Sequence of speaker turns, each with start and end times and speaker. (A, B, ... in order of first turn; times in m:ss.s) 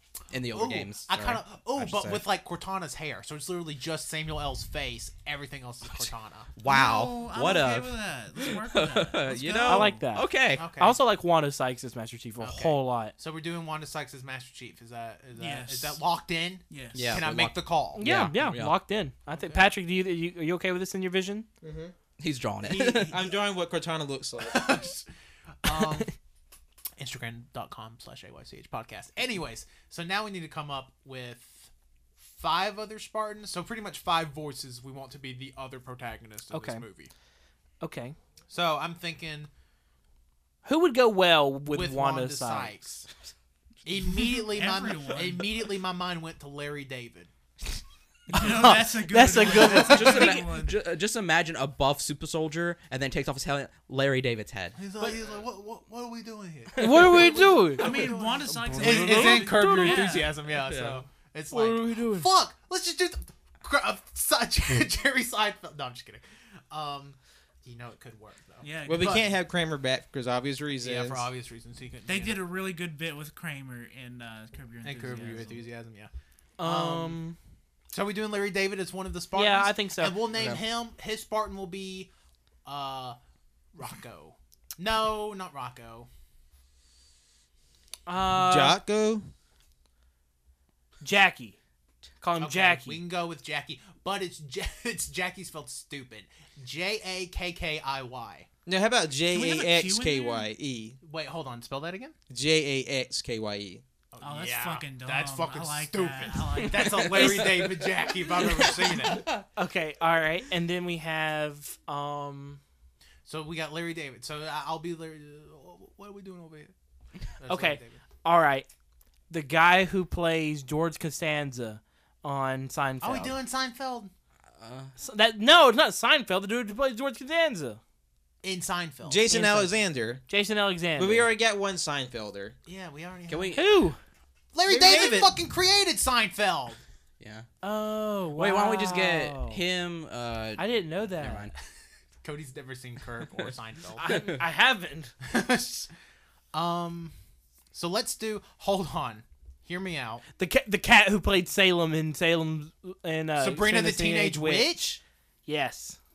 0:00.3-0:02.2 A
0:00.5-0:06.5 B
0:06.6-0:10.7 A
0:06.6-0:10.0 C
0:09.6-0:13.1 D
0:10.5-0:11.0 B
0:12.4-0:18.0 B
0:15.4-0:16.0 C
0:16.7-0:17.2 C
0:16.9-0:18.7 A
0:17.9-0:21.5 D
0:19.4-0:19.6 B
0:21.6-0:21.9 E
0:22.2-0:23.1 A
0:22.6-0:23.3 B
0:22.9-0:24.8 E
0:24.4-0:25.0 B
0:25.6-0:26.1 B
0:25.8-0:26.0 D
0:27.0-0:37.1 B
0:36.5-0:36.8 D
0:37.8-0:38.2 D
0:38.5-0:39.5 B
0:40.6-0:42.8 D
0:41.7-0:43.1 B
0:43.8-0:47.3 B
0:44.0-0:45.6 C
0:48.3-0:50.8 C
0:48.4-0:48.8 B
0:48.4-0:50.4 D
0:49.5-0:54.8 A
0:54.8-1:09.3 B
0:56.8-1:00.2 D
0:57.7-1:00.4 C
1:00.6-1:01.0 A
1:01.5-1:02.3 D
1:08.6-1:09.3 C
1:08.9-1:11.3 E
1:10.8-1:12.5 B
1:12.0-1:15.6 C
1:14.8-1:17.2 B
1:16.6-1:17.4 D
1:17.9-1:22.1 B
1:19.3-1:20.2 D
1:20.3-1:20.6 A
1:22.6-1:23.2 B
1:23.7-1:26.1 B
1:28.1-1:28.8 D
1:28.3-1:29.3 E
1:31.0-1:31.6 D
1:32.2-1:33.0 D
1:32.4-1:38.5 B
1:38.6-1:41.0 E
1:39.3-1:40.5 C
1:41.0-1:42.2 B
1:42.3-1:43.8 E
1:44.1-1:49.3 B
1:44.2-1:47.6 C
1:46.8-1:49.4 A
1:49.6-1:52.6 D
1:53.2-1:56.7 B
1:57.4-1:58.0 B
1:57.5-1:58.7 D
1:59.3-2:03.4 D
2:03.0-2:04.1 B
2:04.6-2:04.9 A
2:05.0-2:07.8 D
2:08.4-2:09.3 B
2:09.0-2:10.2 E
2:09.3-2:09.7 D
2:10.3-2:11.3 D
2:11.0-2:12.5 E
2:12.6-2:13.6 B
2:13.3-2:13.6 A
2:13.5-2:14.0 D
2:14.5-2:16.8 B
2:14.6-2:15.3 E
2:17.2-2:17.5 A
2:17.6-2:19.6 D
2:18.4-2:21.5 A
2:20.6-2:21.5 D
2:22.2-2:24.2 B
2:24.0-2:25.1 D
2:24.1-2:24.3 A
2:25.2-2:25.9 B
2:26.5-2:27.1 B
2:27.7-2:30.2 B
2:30.4-2:34.7 D
2:33.4-2:35.0 B
2:35.4-2:36.0 D